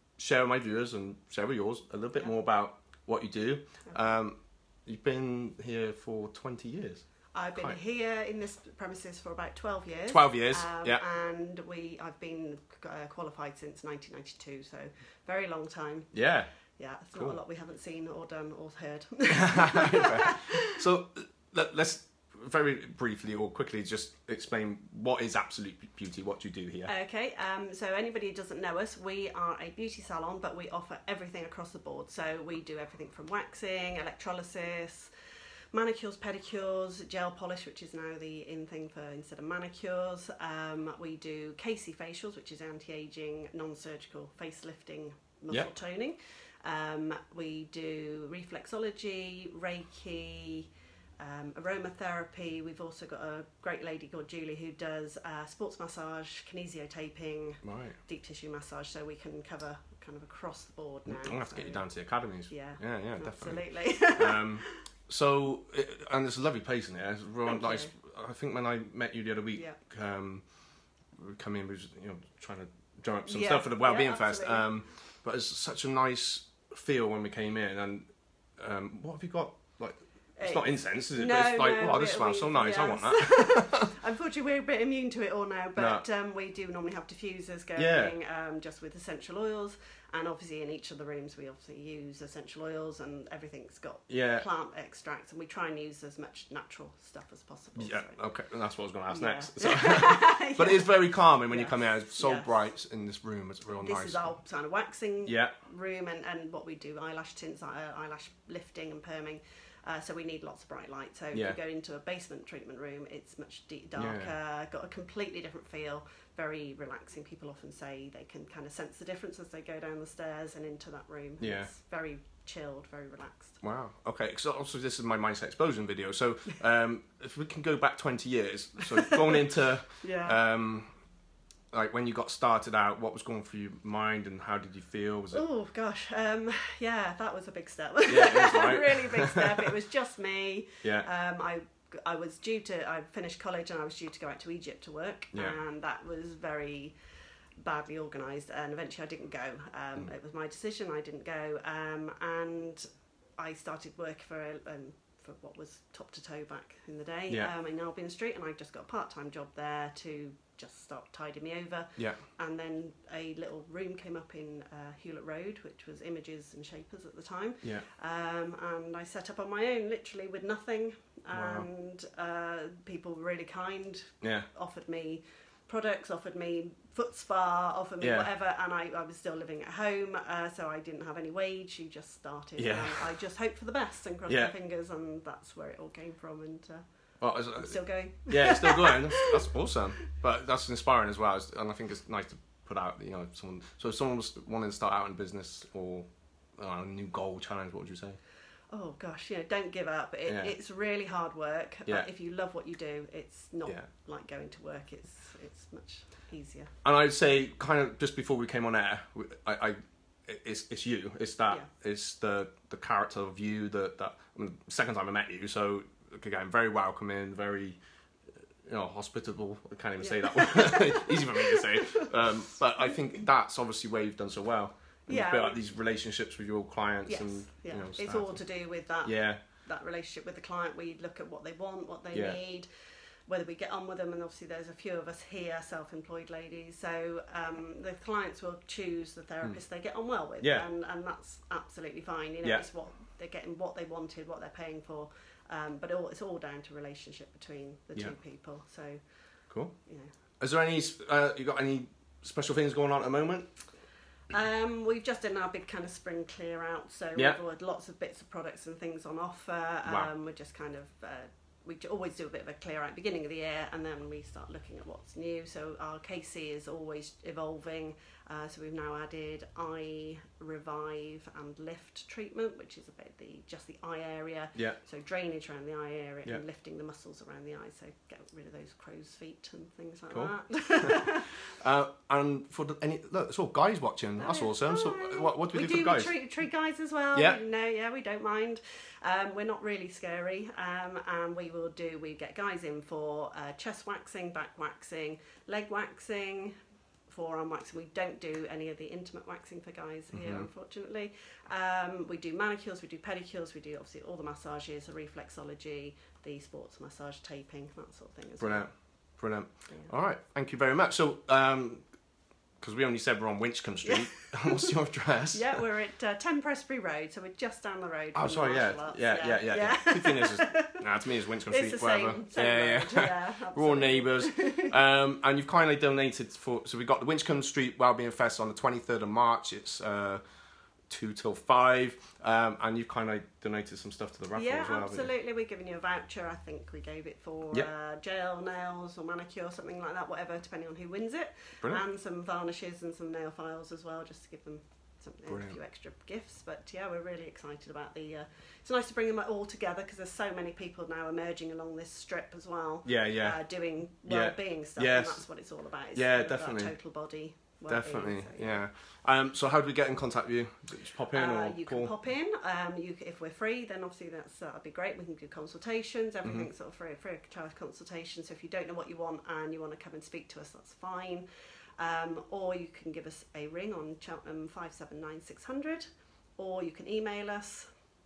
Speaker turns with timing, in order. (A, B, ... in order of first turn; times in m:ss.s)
0:00.2-0:07.0 A
0:07.3-0:16.1 B
0:10.1-0:11.0 A
0:16.1-0:16.5 A
0:16.8-0:20.8 B
0:19.3-0:26.9 A
0:26.9-0:35.1 B
0:35.7-0:50.7 B
0:51.2-1:01.8 B
0:57.6-0:58.0 A
1:01.1-1:10.4 A
1:02.5-1:04.8 B
1:07.4-1:07.9 B
1:11.2-1:18.1 A
1:13.2-1:14.7 B
1:18.6-1:23.9 A
1:20.4-1:38.2 B
1:25.8-1:26.0 A
1:27.8-1:28.2 A
1:34.1-1:34.5 A
1:37.8-1:44.3 A
1:39.1-1:42.5 B
1:43.8-2:03.6 B
1:45.3-1:45.5 A
1:51.3-1:51.6 A
1:54.0-1:54.3 A
2:01.4-2:01.7 A
2:03.6-2:10.9 A
2:09.0-2:09.4 B
2:10.0-2:10.4 B
2:11.7-2:15.4 A
2:15.3-2:27.0 B
2:18.1-2:19.6 A
2:27.6-2:32.9 B
2:33.4-3:06.8 B
2:51.3-2:51.7 A
2:54.2-2:54.5 A
2:58.0-2:58.3 A
3:02.6-3:03.0 A
3:04.3-3:04.5 A
3:07.2-3:16.1 A
3:07.6-3:09.3 B
3:16.6-3:18.2 A
3:18.7-3:26.7 B
3:20.3-3:20.5 A
3:26.8-3:37.8 A
3:38.7-3:48.4 A
3:40.0-3:42.1 B
3:45.1-3:45.6 B
3:47.1-3:52.7 B
3:49.0-3:49.4 A
3:52.1-3:52.4 A
3:53.3-4:09.0 B
4:00.4-4:00.7 A
4:09.9-4:10.1 B
4:10.4-4:13.5 A
4:14.3-4:41.3 B
4:19.8-4:20.1 A
4:40.1-4:46.1 A
4:44.2-4:56.6 B
4:47.1-4:47.4 A
4:57.1-5:08.7 B
5:00.1-5:00.5 A
5:08.4-5:11.9 A
5:12.6-5:15.6 A
5:13.8-5:14.7 B
5:15.3-5:20.8 B
5:18.1-5:30.2 A
5:21.5-5:24.8 B
5:30.9-5:35.1 A
5:34.3-5:58.6 B
5:45.3-5:45.6 A
5:52.8-5:53.4 A
5:54.1-5:55.2 A
5:55.9-5:56.7 A
5:57.7-6:01.9 A
6:01.1-6:11.3 B
6:11.8-6:17.7 B